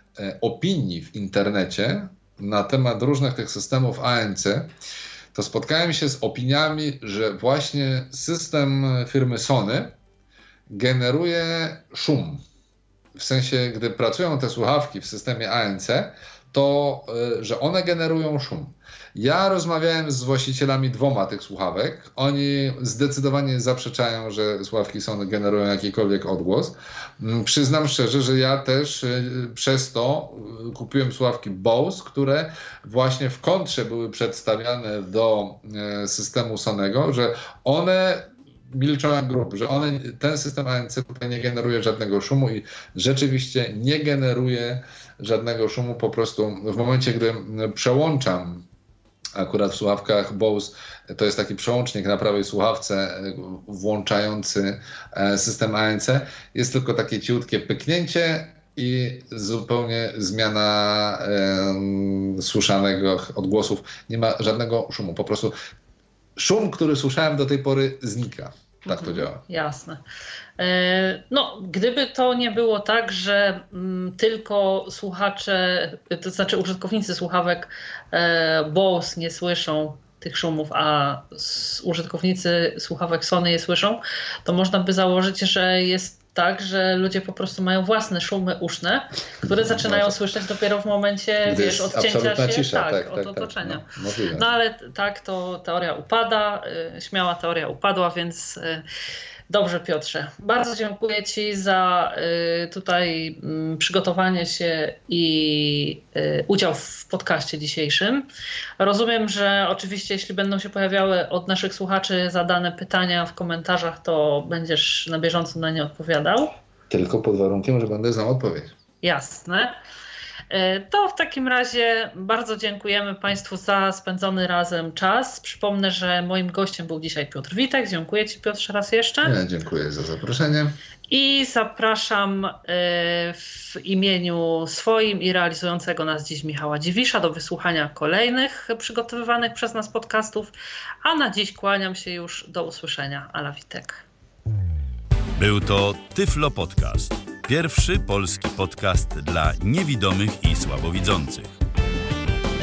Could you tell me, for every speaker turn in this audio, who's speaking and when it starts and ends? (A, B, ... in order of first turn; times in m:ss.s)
0:00.2-0:04.7 A
0:05.3-0:09.9 A
0:10.7-0:12.4 A
0:13.1-0:48.6 A
0:49.4-1:05.5 A
1:06.4-1:09.4 A
1:08.9-1:10.0 B
1:10.6-1:38.8 B
1:29.4-1:30.2 A
1:31.5-1:34.5 A
1:39.5-1:48.2 B
1:48.8-1:56.5 B
1:56.9-1:58.7 A
1:59.0-1:59.7 B
2:00.5-2:09.4 B
2:09.2-2:10.8 A
2:11.1-2:20.5 B
2:21.0-2:24.0 B
2:25.4-2:31.6 C